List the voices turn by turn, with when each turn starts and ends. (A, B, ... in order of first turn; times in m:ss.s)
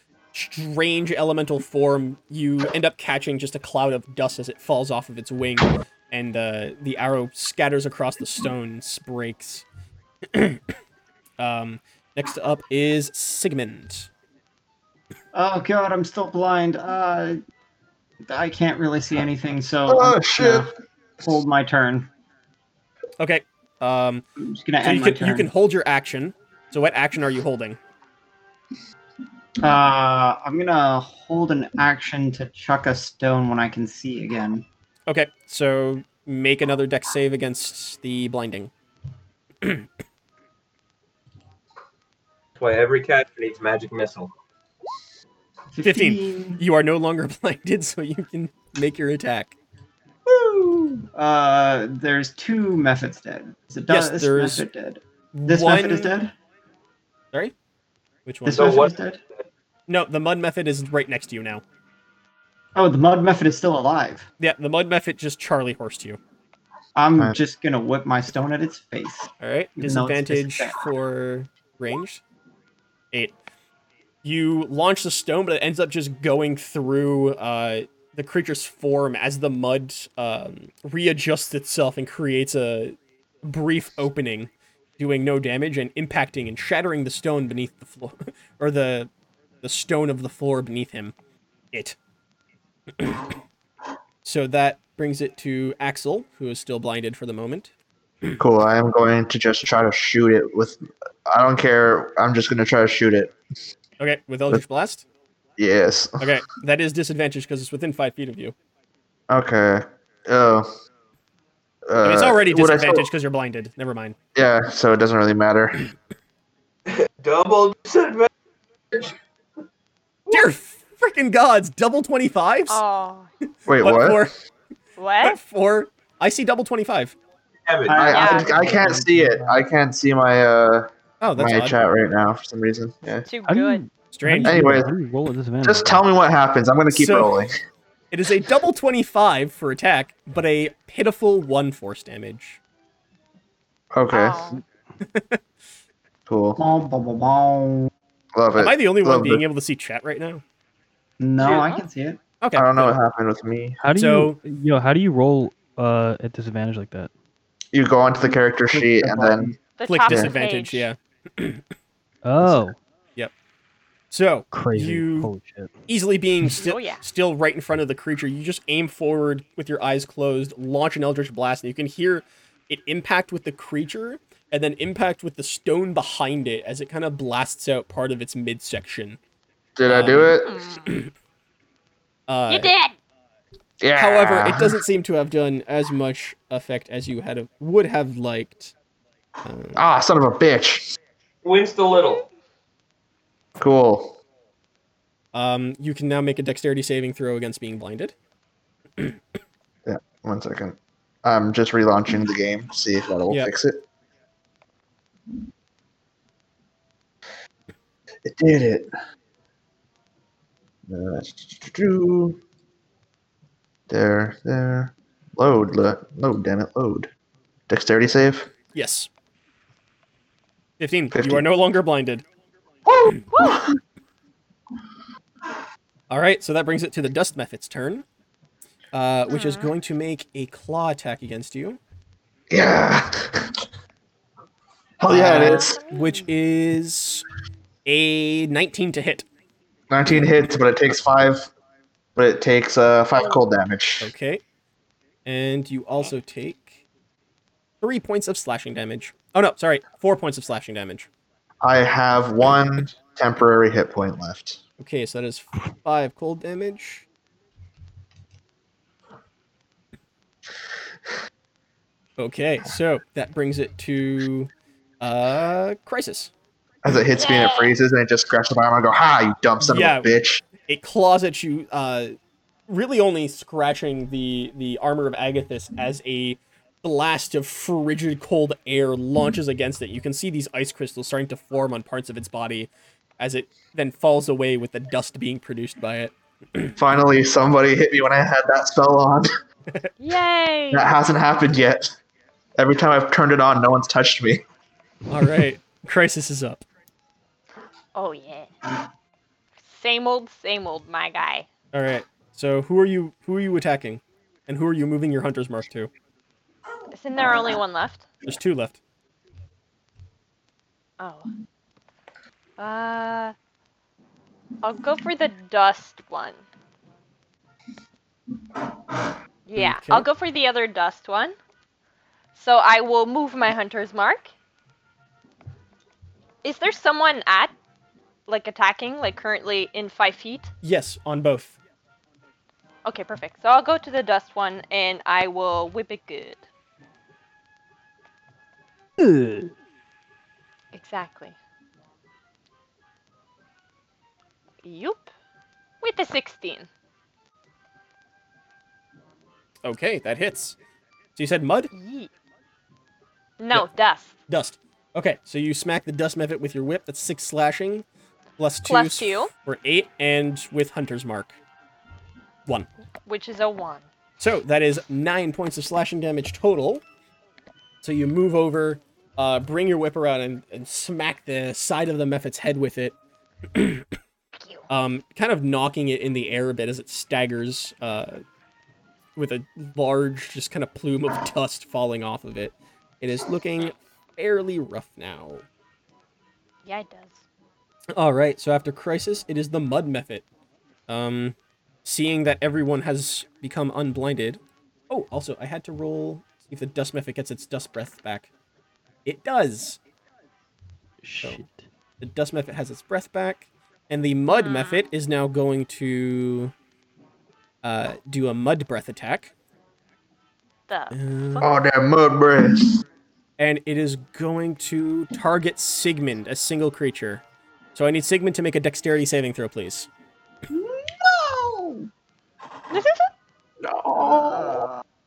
0:00.3-0:09.6 A
0:10.3-0:10.6 A
0:11.4-0:14.1 A
0:15.3-0:17.4 B
0:18.2-0:20.7 B
0:19.9-0:20.7 C
0:21.2-0:22.1 B
0:23.2-0:24.2 A
0:24.4-0:25.5 B
0:24.8-0:27.8 A
0:29.6-0:34.6 B
0:35.1-0:38.7 A
0:42.6-0:44.3 D
0:45.7-0:46.6 B
0:45.8-0:49.5 A
0:50.3-0:56.3 B
0:53.9-0:54.6 A
0:55.3-0:56.1 A
0:58.2-0:58.9 A
0:58.4-0:59.2 B
0:58.5-0:59.4 D
0:59.9-1:01.6 A
1:02.7-1:04.3 B
1:04.4-1:06.2 A
1:07.0-1:10.8 B
1:09.4-1:12.2 A
1:14.2-1:29.1 A
1:29.6-1:31.1 A
1:33.0-1:33.3 A
1:34.2-1:37.7 A
1:38.4-1:43.3 C
1:44.0-1:45.0 A
1:45.6-1:46.4 C
1:46.2-1:48.5 A
1:49.3-1:50.7 C
1:51.9-1:53.1 C
1:52.0-1:54.2 A
1:54.3-1:55.8 C
1:56.9-1:58.3 D
2:00.3-2:02.8 A
2:02.7-2:03.3 E
2:03.7-2:04.3 C
2:03.8-2:04.4 A
2:05.0-2:05.4 E
2:05.2-2:07.1 A
2:07.6-2:08.3 D
2:07.9-2:09.6 B
2:08.0-2:13.2 C
2:08.1-2:08.5 E
2:11.2-2:11.8 A
2:13.2-2:13.8 E
2:13.5-2:16.1 F
2:14.1-2:14.7 A
2:14.4-2:14.9 C
2:15.6-2:17.5 C
2:16.9-2:17.4 A
2:18.1-2:22.6 A
2:23.9-2:24.5 C
2:24.1-2:24.6 E
2:25.1-2:25.4 A
2:26.3-2:26.6 C
2:26.6-2:27.9 B
2:28.3-2:29.4 C
2:28.6-2:30.4 A
2:31.2-2:32.2 B
2:31.4-2:31.7 D
2:31.4-2:31.8 E
2:32.4-2:33.0 A
2:32.5-2:33.8 C
2:33.8-2:37.1 F
2:33.9-2:34.4 A
2:37.7-2:39.5 C
2:38.7-2:39.6 B
2:39.8-2:40.9 E
2:39.8-2:41.6 A
2:42.2-2:42.8 F
2:44.1-2:45.3 A
2:44.5-2:45.7 F
2:45.9-2:59.2 A
2:46.6-2:47.0 E
2:59.8-3:00.6 C
2:59.9-3:01.1 A
3:00.4-3:00.9 E
3:02.3-3:02.7 A
3:02.5-3:02.9 E
3:03.8-3:04.8 C
3:04.0-3:08.7 A
3:09.4-3:09.8 A
3:09.8-3:10.9 C
3:11.4-3:12.3 D
3:13.6-3:14.2 C
3:15.3-3:18.1 A
3:19.8-3:23.8 C
3:28.2-3:28.9 C
3:30.9-3:32.4 C
3:33.9-3:37.1 C
3:37.7-3:38.5 C
3:38.7-3:39.1 A
3:40.8-3:42.2 A
3:41.1-3:41.4 C
3:43.3-3:43.6 E
3:46.1-3:48.0 A
3:48.9-3:51.8 A
3:49.3-3:49.7 E
3:52.5-3:53.6 C
3:55.0-3:55.8 C
3:55.1-3:57.2 A
3:55.3-3:56.3 E
3:57.8-3:59.2 A
3:59.9-4:01.5 C
4:02.2-4:04.1 C
4:04.0-4:04.4 A
4:05.2-4:06.8 A
4:07.8-4:11.1 A
4:11.6-4:14.6 C
4:14.8-4:17.0 A
4:22.2-4:24.5 A
4:25.0-4:26.3 A
4:26.8-4:30.4 C
4:27.1-4:27.8 E
4:29.6-4:32.1 A
4:32.7-4:46.7 A
4:46.8-4:49.3 C
4:50.0-4:50.9 E
4:50.7-4:51.9 C
4:52.6-4:54.4 C
4:55.1-4:56.6 A
4:57.9-4:58.5 E
4:59.6-5:01.5 E
5:01.7-5:05.9 A
5:06.9-5:08.1 E
5:08.2-5:08.8 A
5:11.0-5:11.3 E
5:12.6-5:13.3 E
5:14.6-5:16.4 E
5:19.4-5:21.3 E
5:19.6-5:20.1 A
5:22.3-5:24.3 E
5:26.4-5:27.5 E
5:28.3-5:30.5 E
5:30.6-5:31.6 A
5:32.8-5:36.4 E
5:39.0-5:39.5 F
5:40.7-5:41.3 E
5:44.6-5:45.1 E
5:45.8-5:46.7 E
5:49.6-5:50.6 A
5:51.2-5:51.7 A
5:51.7-5:52.1 E
5:53.4-5:54.1 E
5:54.3-5:57.8 A
5:58.4-6:01.4 A
5:58.6-5:59.3 E
6:03.0-6:03.8 E
6:04.2-6:06.8 A
6:07.8-6:12.9 A
6:13.5-6:13.8 A
6:14.7-6:18.2 A
6:19.2-6:25.4 A
6:26.6-6:27.2 E
6:27.9-6:30.2 A
6:30.9-6:38.3 A
6:39.0-6:39.8 A
6:41.0-6:41.6 F
6:42.0-6:46.5 A
6:44.3-6:44.8 E
6:47.6-6:49.3 A
6:50.7-6:51.5 E
6:50.9-6:51.4 A
6:51.4-6:52.8 C
6:53.4-6:57.2 A
6:57.7-6:59.9 A
7:00.5-7:01.9 B
7:02.7-7:03.1 E
7:03.6-7:04.7 C
7:04.0-7:04.8 B